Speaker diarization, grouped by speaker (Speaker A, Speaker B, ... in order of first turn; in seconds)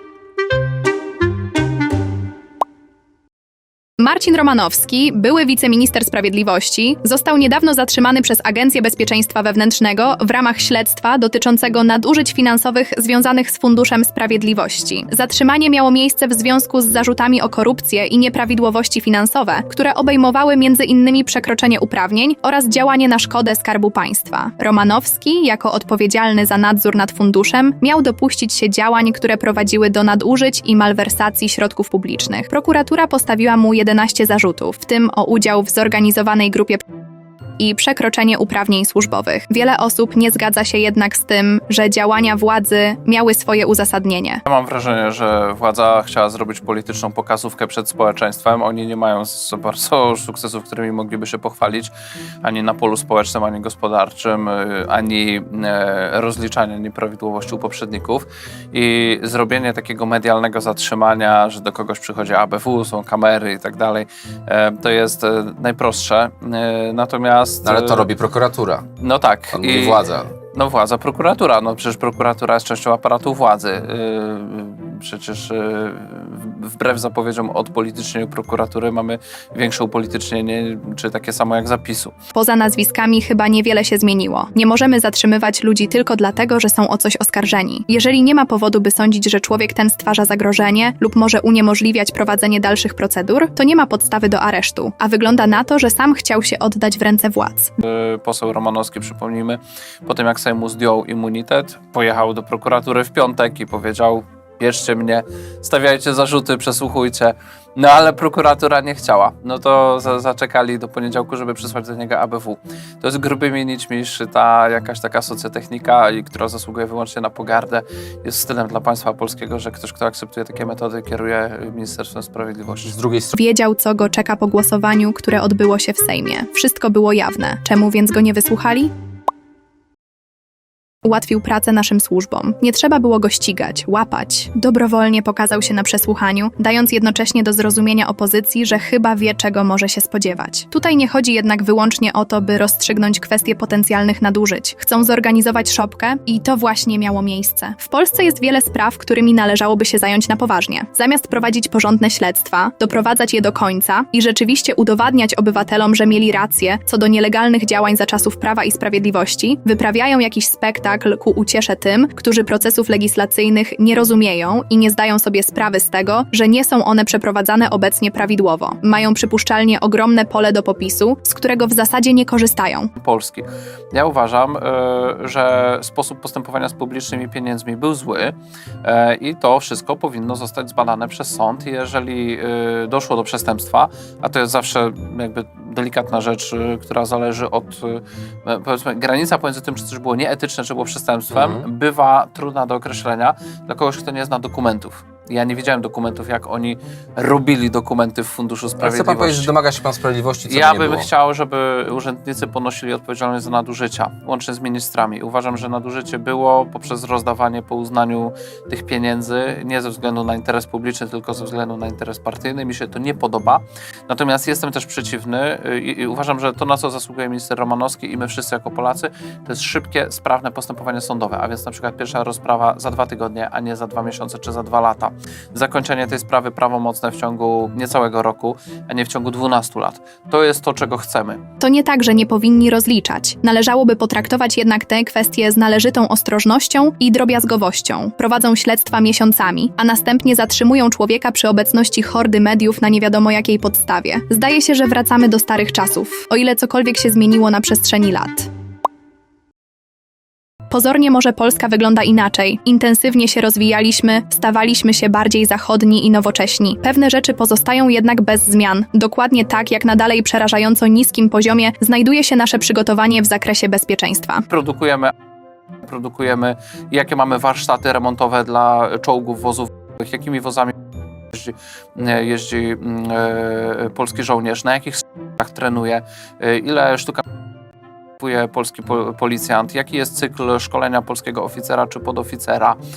Speaker A: 4.0-36.8, 37.6-44.4, 82.3-97.7, 123.3-128.9, 131.0-172.9, 231.6-248.5, 250.7-264.4
Speaker B: 44.5-51.9, 52.4-68.1, 69.0-82.1, 97.8-122.9, 172.9-199.5, 200.4-231.4, 264.5-265.1, 265.8-270.8, 271.3-277.2, 278.2-282.8
Speaker C: 67.6-68.8, 69.5-70.3, 122.8-123.3, 191.3-191.7, 198.8-201.1